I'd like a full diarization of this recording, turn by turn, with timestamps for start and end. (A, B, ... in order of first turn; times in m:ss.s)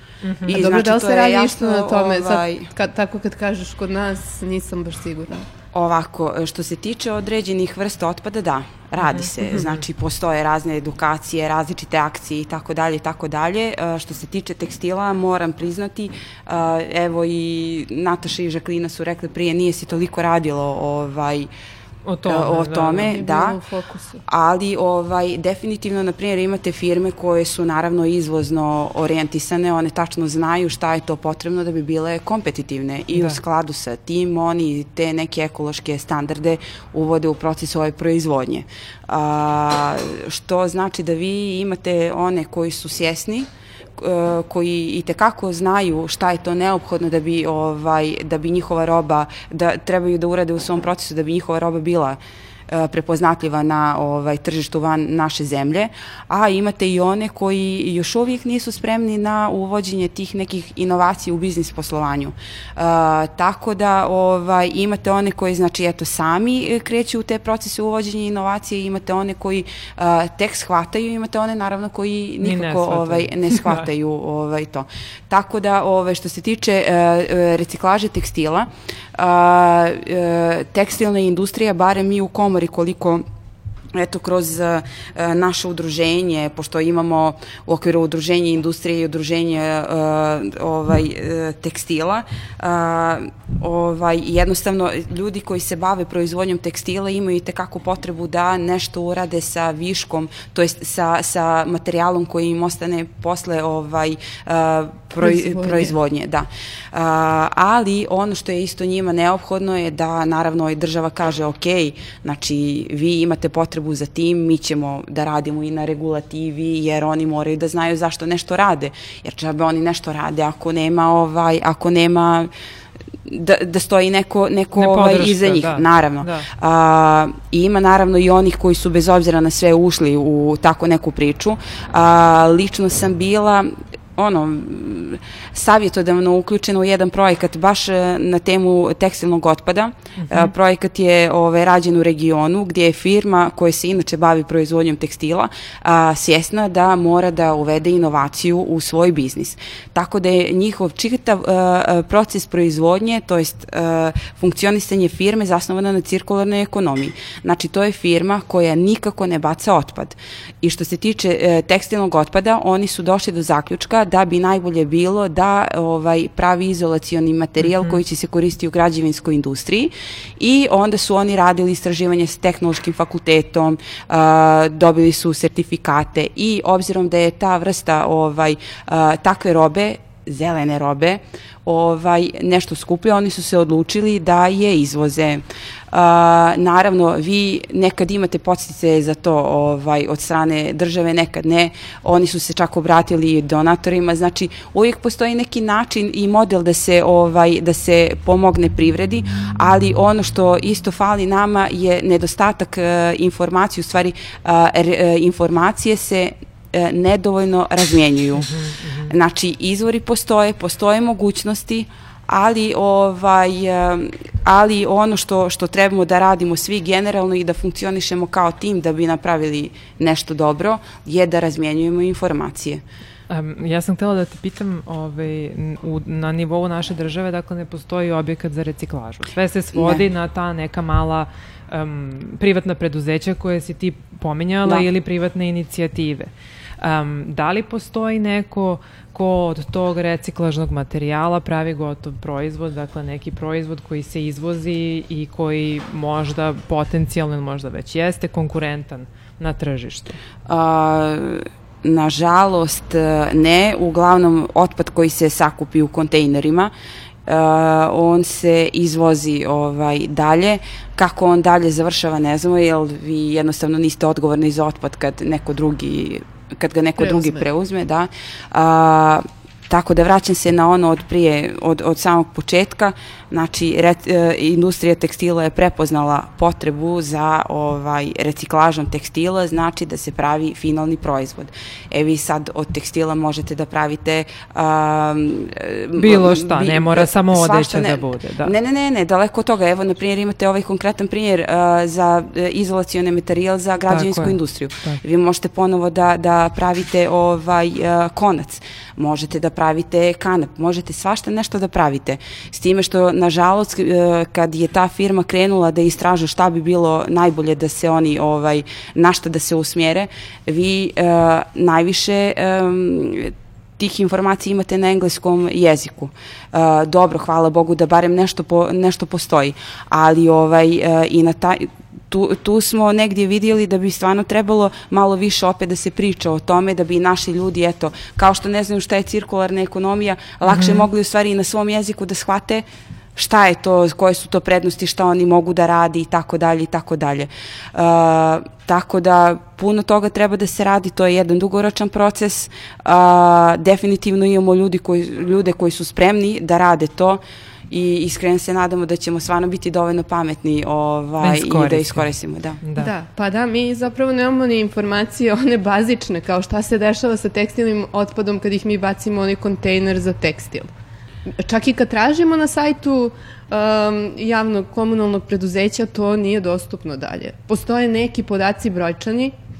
0:00.2-0:00.6 A
0:00.4-0:02.7 B
0:00.5-0:05.4 C
0:05.7-0:21.5 B
0:09.0-0:09.8 A
0:22.0-0:23.1 A
0:22.2-0:23.6 B
0:23.0-0:24.2 C
0:24.2-1:23.2 B
1:12.4-1:13.8 A
1:23.9-2:02.5 B
1:45.2-1:45.9 C
2:03.2-3:28.5 B
2:04.8-2:06.5 A
2:20.2-2:20.5 A
2:47.6-2:48.0 A
3:28.4-3:29.1 A
3:29.0-3:42.8 B
3:43.3-3:56.3 A
3:49.7-3:50.0 B
3:56.8-4:10.2 A
4:10.5-4:16.7 B
4:17.2-5:52.6 B
4:27.0-4:27.4 C
4:46.0-4:48.5 A
4:53.9-4:55.0 A
5:30.5-5:30.8 A
5:51.2-5:52.0 A
5:52.6-5:52.9 A
5:52.8-6:00.7 C
6:01.3-6:09.3 C